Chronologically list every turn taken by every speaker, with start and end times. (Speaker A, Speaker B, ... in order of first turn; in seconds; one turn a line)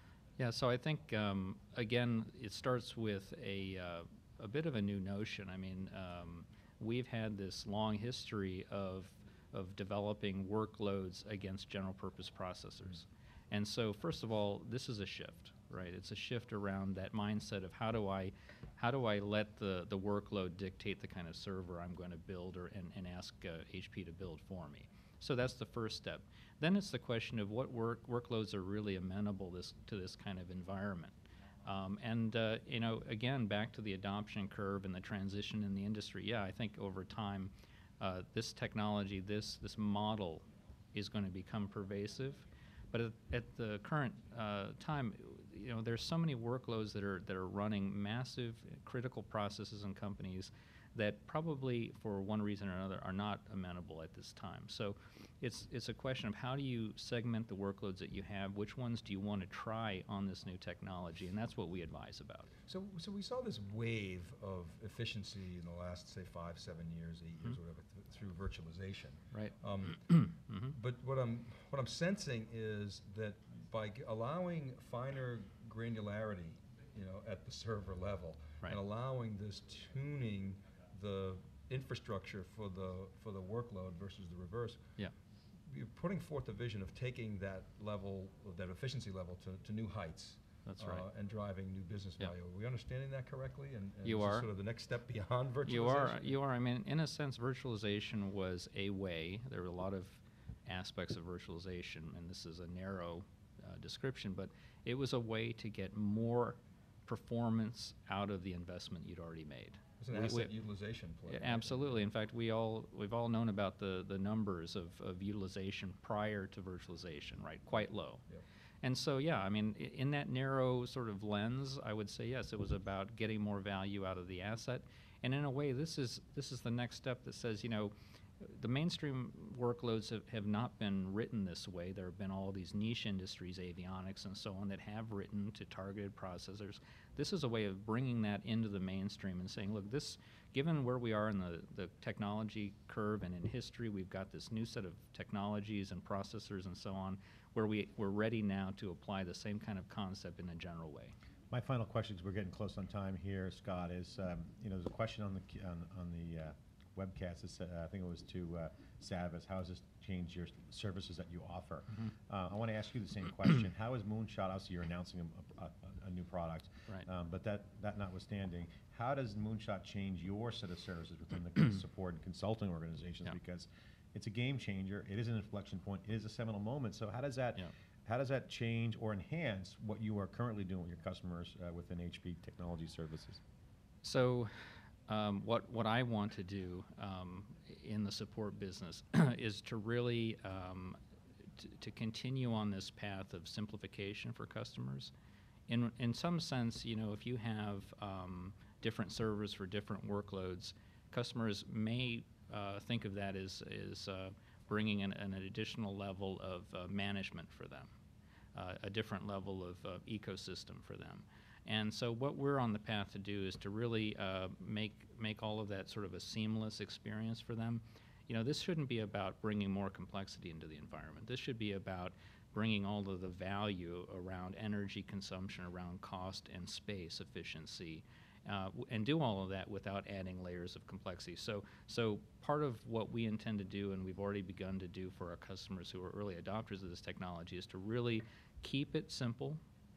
Speaker A: 0.4-62.5
Speaker B: 62.6-70.1
Speaker A: 69.3-70.7
Speaker B: 70.7-84.8
Speaker B: 85.7-96.4
Speaker A: 90.7-91.1
Speaker A: 94.0-94.5
Speaker A: 95.7-110.5
Speaker B: 110.0-112.0
Speaker A: 111.3-118.2
Speaker A: 118.8-151.2
Speaker C: 151.5-183.4
Speaker A: 184.0-184.5
Speaker A: 185.1-191.0
Speaker A: 191.6-195.1
Speaker A: 195.7-207.9
Speaker A: 208.6-239.6